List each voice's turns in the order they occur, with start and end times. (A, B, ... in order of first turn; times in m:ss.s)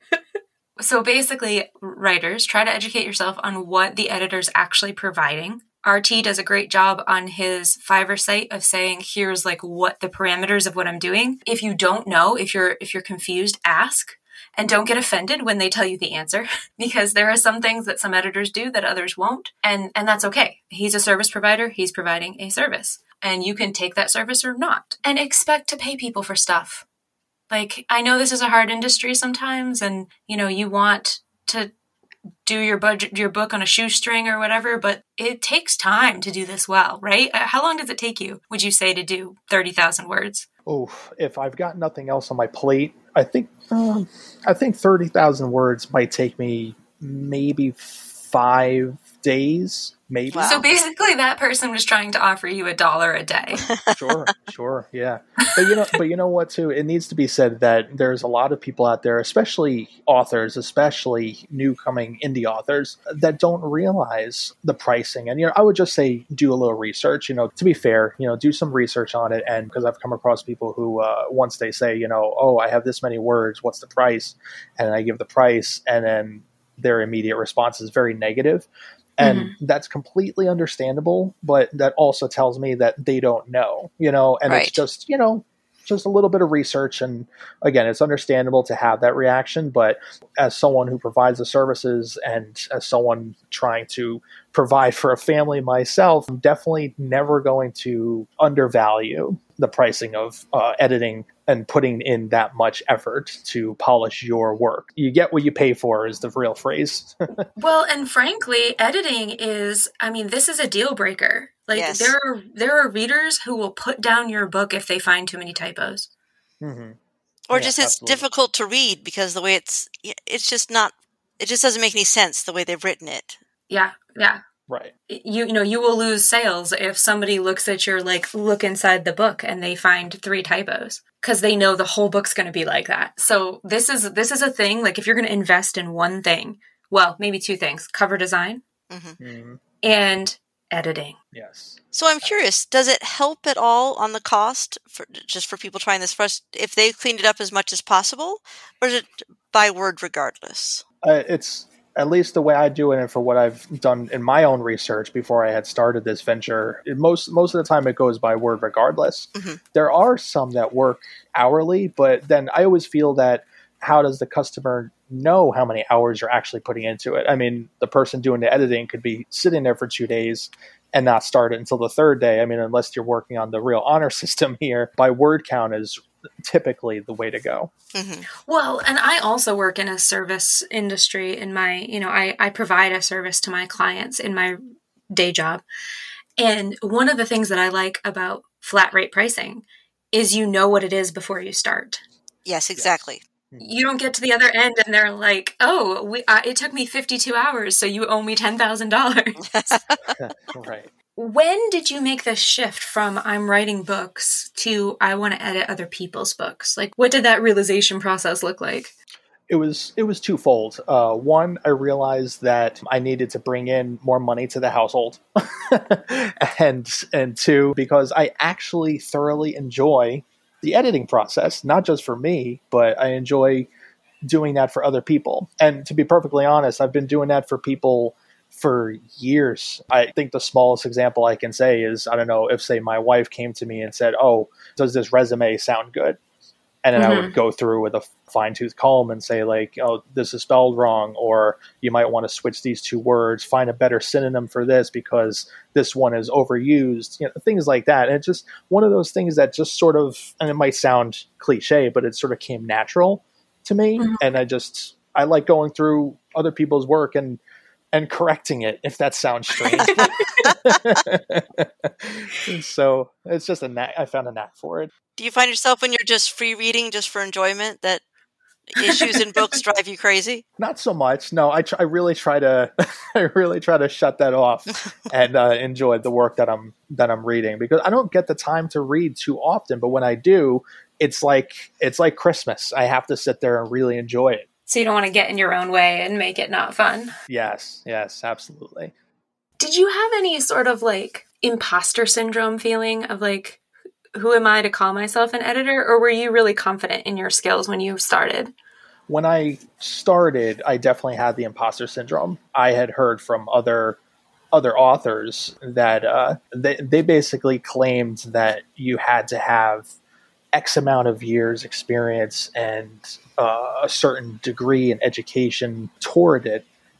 0:00.8-0:26.8 A
0:27.5-0:31.7 A
0:32.4-0:40.5 A
0:40.7-0:50.7 B
0:50.3-0:50.6 C
0:50.4-0:53.7 A
0:53.7-0:54.0 C
0:53.9-1:18.7 B
1:19.2-1:47.4 B
1:19.2-1:19.5 A
1:24.5-1:24.8 C
1:47.6-1:56.1 A
1:51.7-1:52.2 C
1:56.6-1:57.0 B
1:57.5-2:03.4 C
1:57.5-1:58.2 B
2:03.7-2:04.4 A
2:05.1-2:18.6 A
2:18.9-2:19.2 C
2:19.2-2:19.6 B
2:19.8-2:21.2 A
2:21.3-2:22.3 B
2:21.9-2:30.8 C
2:31.0-2:57.7 B
2:57.9-2:58.3 C
2:58.4-3:04.6 A
3:05.1-3:05.6 A
3:06.4-3:12.0 A
3:12.5-3:13.2 C
3:13.6-3:19.4 A
3:19.5-3:20.0 C
3:20.2-3:20.9 B
3:21.2-3:28.9 A
3:29.5-3:43.7 B
3:44.3-3:56.2 B
3:56.8-4:17.4 B
3:57.0-3:57.3 A
4:17.9-4:24.9 B
4:19.8-4:20.8 C
4:25.2-4:28.0 C
4:28.7-4:30.4 C
4:30.6-4:44.5 B
4:44.7-4:47.1 A
4:47.3-4:48.9 B
4:49.6-4:53.6 A
4:54.2-4:58.5 A
4:59.1-5:04.0 B
5:04.5-5:09.9 B
5:10.5-5:16.7 B